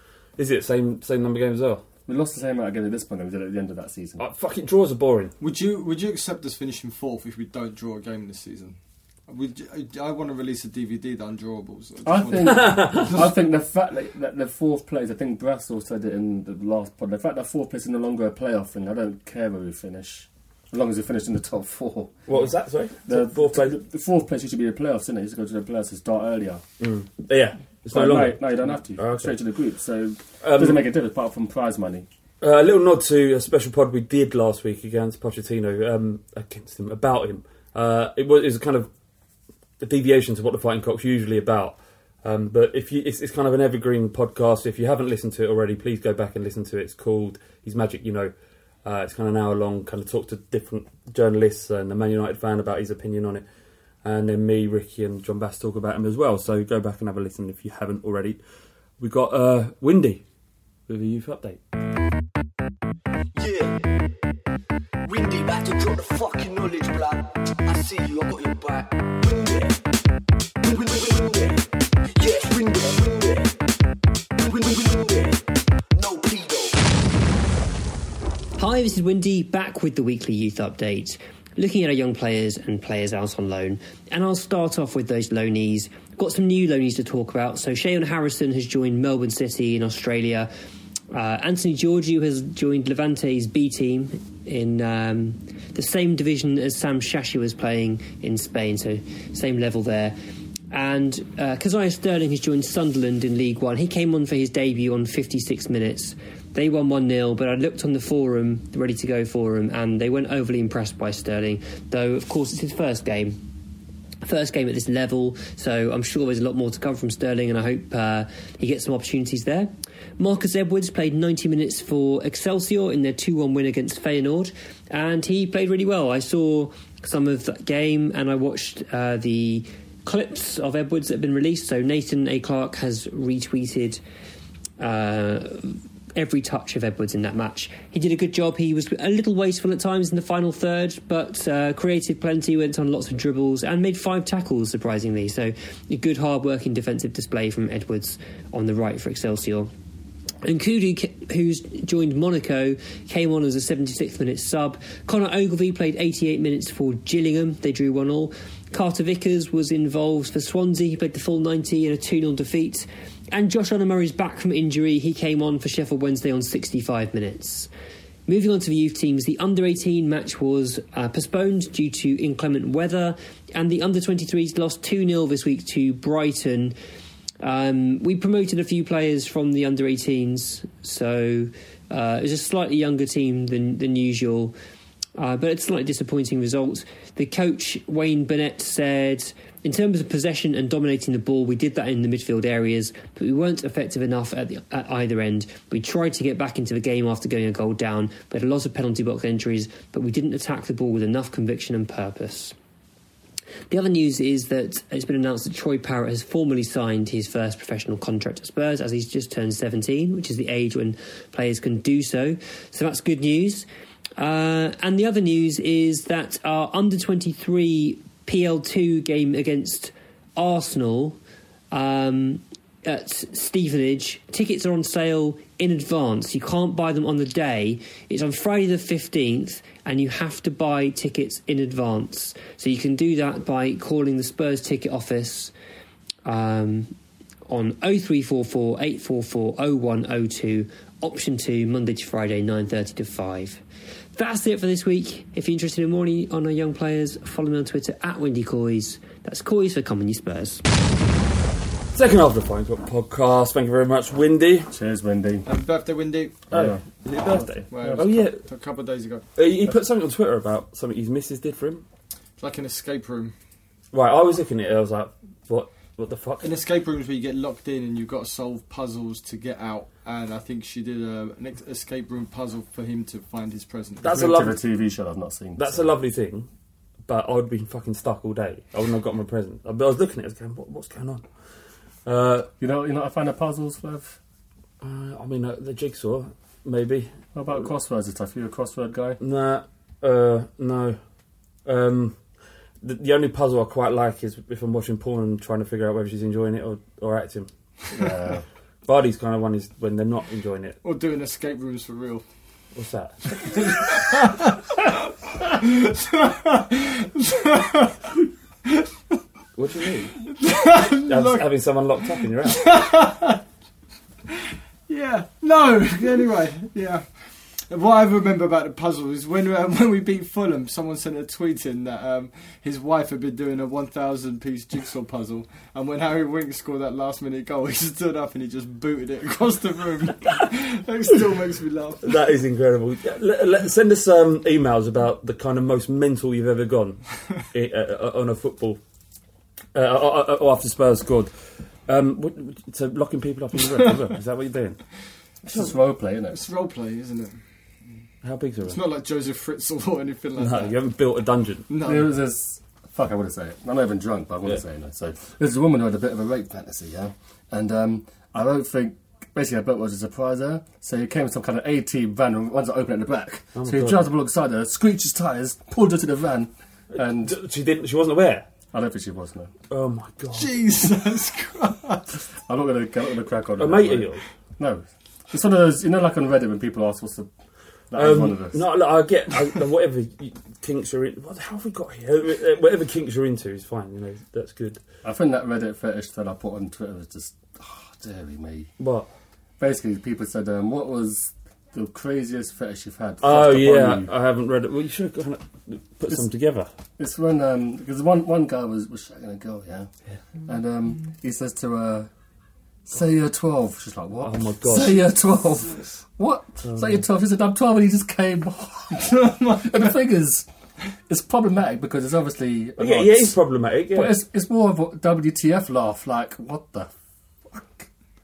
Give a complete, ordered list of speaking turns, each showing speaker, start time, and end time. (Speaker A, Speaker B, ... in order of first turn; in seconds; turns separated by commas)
Speaker A: 0.4-1.8, Speaker B: 2.1-4.2, Speaker A: 4.2-5.3, Speaker C: 5.4-8.8, Speaker C: 9.3-13.3, Speaker B: 12.1-22.5, Speaker A: 12.5-13.2, Speaker A: 22.3-23.8, Speaker B: 23.1-26.6, Speaker A: 26.8-29.4, Speaker B: 27.9-32.1, Speaker A: 30.4-30.9, Speaker A: 32.4-38.9, Speaker A: 39.8-48.3, Speaker A: 48.9-53.5, Speaker A: 54.0-58.4, Speaker A: 59.0-60.2, Speaker A: 60.9-61.6, Speaker D: 63.4-63.8, Speaker D: 65.0-69.8, Speaker D: 70.6-71.6, Speaker D: 72.2-73.6, Speaker D: 74.4-75.4, Speaker D: 75.9-76.8, Speaker E: 78.6-90.5, Speaker E: 91.1-100.2, Speaker E: 100.7-113.4, Speaker E: 114.2-134.0, Speaker E: 134.8-149.7, Speaker E: 150.4-167.7, Speaker E: 168.3-176.8, Speaker E: 177.4-184.6, Speaker E: 185.2-202.6, Speaker E: 203.7-213.7, Speaker E: 214.2-221.2, Speaker E: 221.7-235.5, Speaker E: 236.3-236.9, Speaker E: 237.5-243.6, Speaker E: 244.2-250.6, Speaker A: 251.9-254.7, Speaker B: 254.7-255.5, Speaker C: 255.5-256.5, Speaker A: 256.5-258.4, Speaker B: 256.5-256.8, Speaker B: 257.4-258.1, Speaker C: 257.7-259.3, Speaker A: 259.4-261.9, Speaker C: 262.4-263.3, Speaker A: 263.9-266.5, Speaker C: 266.4-274.2, Speaker A: 274.0-274.6, Speaker B: 274.0-275.9, Speaker A: 275.6-276.5, Speaker A: 277.1-281.3, Speaker A: 282.1-282.5, Speaker B: 282.6-284.2, Speaker A: 284.8-287.1, Speaker B: 287.3-289.2, Speaker A: 289.2-291.0, Speaker A: 291.6-292.2, Speaker A: 292.8-297.5, Speaker B: 297.9-298.4, Speaker A: 298.9-300.8, Speaker C: 300.8-302.2, Speaker A: 302.8-303.3, Speaker C: 303.4-304.6, Speaker C: 305.4-308.0, Speaker A: 309.6-310.2, Speaker C: 310.3-311.5, Speaker A: 311.1-312.6, Speaker C: 312.4-313.4, Speaker C: 314.9-332.1, Speaker A: 332.0-338.8, Speaker A: 339.8-344.9, Speaker B: 345.4-346.4, Speaker C: 346.3-347.4, Speaker A: 348.2-348.8, Speaker C: 348.7-350.8, Speaker A: 350.4-351.7, Speaker C: 351.7-352.1, Speaker B: 351.8-367.4, Speaker A: 363.6-364.0, Speaker A: 366.9-368.5, Speaker B: 368.7-369.5, Speaker A: 369.7-370.6, Speaker C: 370.3-372.0, Speaker B: 372.4-377.3, Speaker A: 373.6-374.2, Speaker B: 377.9-378.6, Speaker A: 378.0-384.8, Speaker B: 385.0-388.7, Speaker A: 388.8-389.1, Speaker B: 389.6-394.1, Speaker A: 393.2-396.7, Speaker B: 397.0-402.1, Speaker B: 402.9-410.5, Speaker A: 404.2-405.1, Speaker A: 406.6-407.0, Speaker C: 409.0-409.7, Speaker B: 411.1-413.4, Speaker A: 412.8-414.2, Speaker B: 413.9-416.9, Speaker B: 417.5-417.9